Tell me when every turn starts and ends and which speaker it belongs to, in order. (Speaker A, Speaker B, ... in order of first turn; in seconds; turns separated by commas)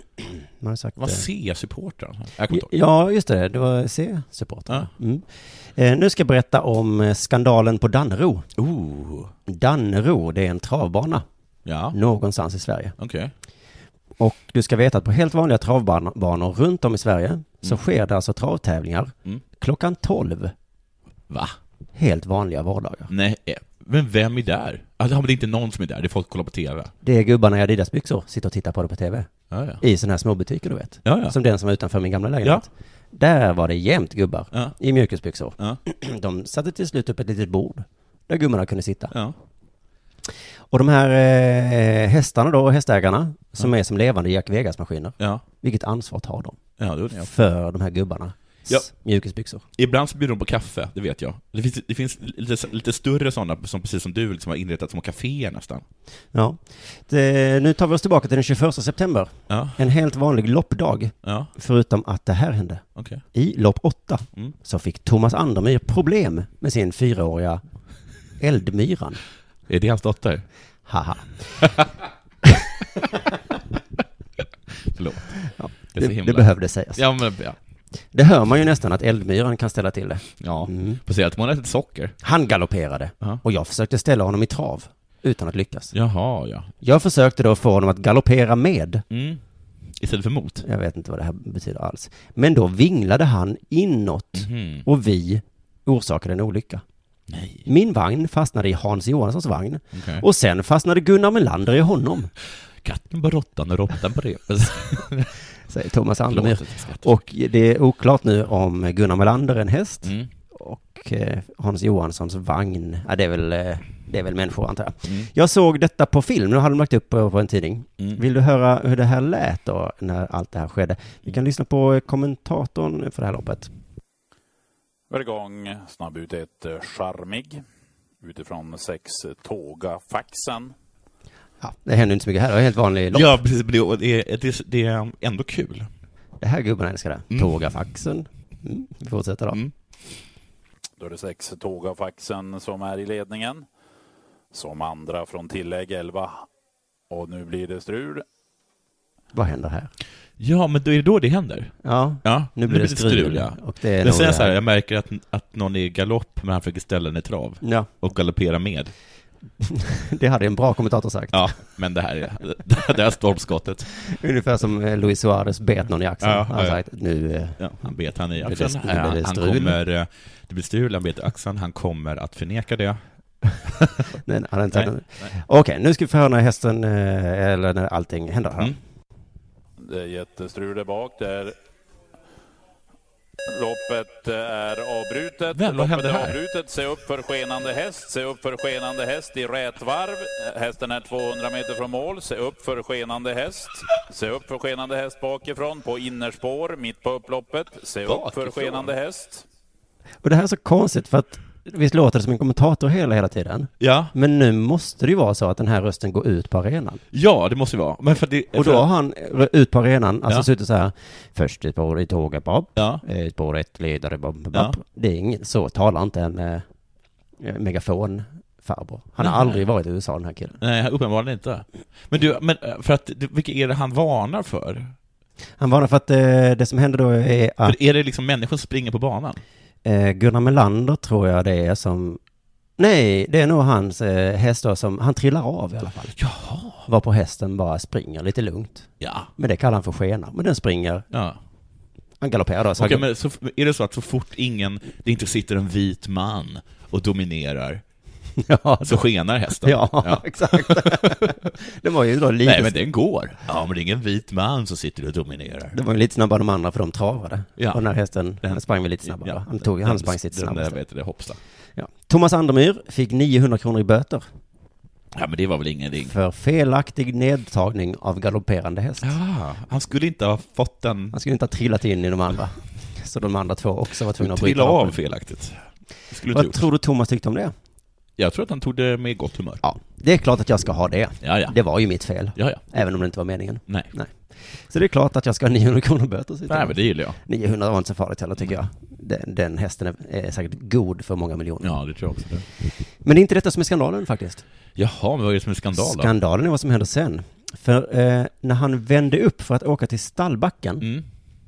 Speaker A: 0.6-1.2, Speaker B: 1.0-2.7, Speaker A: 2.5-8.5, Speaker B: 8.6-9.3, Speaker A: 9.5-11.2, Speaker B: 11.7-12.0, Speaker A: 11.9-13.0, Speaker B: 13.0-13.3, Speaker A: 14.2-20.5, Speaker B: 21.3-21.6, Speaker A: 21.9-23.1, Speaker B: 23.1-26.9, Speaker A: 27.0-39.1, Speaker B: 29.5-29.8, Speaker B: 31.1-31.4, Speaker B: 34.5-34.8, Speaker B: 39.1-39.4, Speaker A: 40.7-49.6, Speaker B: 46.8-47.3, Speaker B: 49.7-55.8, Speaker A: 56.3-67.6, Speaker B: 59.5-59.8, Speaker B: 61.2-61.5, Speaker B: 63.0-63.2, Speaker A: 68.4-69.2, Speaker B: 69.7-70.5, Speaker A: 70.9-71.8, Speaker B: 74.8-77.6, Speaker A: 75.5-77.0, Speaker A: 78.1-81.0, Speaker B: 80.4-82.2, Speaker A: 82.2-85.9, Speaker B: 85.9-86.7, Speaker A: 86.8-89.0, Speaker B: 89.1-89.4, Speaker B: 89.9-90.7, Speaker A: 90.6-96.8, Speaker B: 94.3-94.9, Speaker B: 97.3-97.7, Speaker A: 97.7-102.3, Speaker B: 99.9-100.2, Speaker B: 102.8-105.3, Speaker A: 105.7-123.7, Speaker B: 106.3-107.1, Speaker B: 110.0-110.3, Speaker B: 115.0-115.3, Speaker C: 125.1-127.6, Speaker C: 128.2-130.7, Speaker A: 131.6-133.4, Speaker B: 133.1-135.9, Speaker A: 136.4-139.6, Speaker B: 137.3-137.6, Speaker C: 141.0-143.7, Speaker C: 144.5-146.5, Speaker C: 147.1-148.2, Speaker A: 149.3-149.9, Speaker B: 150.4-158.9, Speaker A: 151.8-154.6, Speaker A: 157.6-157.9, Speaker A: 159.6-161.6, Speaker B: 161.3-163.9, Speaker A: 164.0-167.8, Speaker B: 166.2-166.8, Speaker B: 167.6-173.0, Speaker A: 168.4-169.8, Speaker A: 174.2-178.8, Speaker B: 174.7-175.3, Speaker C: 179.8-181.6, Speaker C: 183.5-199.4, Speaker B: 185.5-186.4, Speaker B: 198.0-198.9, Speaker A: 200.2-207.0, Speaker B: 203.8-204.1, Speaker B: 207.1-208.9, Speaker A: 208.6-216.7, Speaker B: 212.8-213.0, Speaker A: 217.4-220.6, Speaker B: 219.2-219.6, Speaker B: 220.6-225.0, Speaker A: 225.6-227.8, Speaker B: 227.6-229.4, Speaker A: 229.8-232.2, Speaker A: 232.8-236.2, Speaker B: 236.2-236.9, Speaker A: 236.8-241.1, Speaker B: 239.0-239.3, Speaker B: 241.1-241.4, Speaker A: 242.2-243.1, Speaker B: 242.8-247.8, Speaker A: 248.4-249.0, Speaker B: 248.8-251.5, Speaker A: 249.6-252.8, Speaker B: 252.4-255.8, Speaker A: 255.7-260.8, Speaker B: 257.6-257.9, Speaker B: 258.4-261.4, Speaker A: 261.8-264.3, Speaker B: 265.1-266.1, Speaker A: 266.1-269.1, Speaker B: 269.0-271.2, Speaker A: 271.1-275.0, Speaker B: 274.2-276.7, Speaker A: 276.3-277.5, Speaker B: 278.2-279.6, Speaker A: 279.6-292.0, Speaker B: 281.2-281.6, Speaker B: 282.3-282.7, Speaker B: 283.7-283.9, Speaker B: 286.5-287.2, Speaker B: 291.6-292.5, Speaker A: 293.0-294.4, Speaker B: 294.8-296.1, Speaker A: 295.8-300.9, Speaker B: 300.8-301.1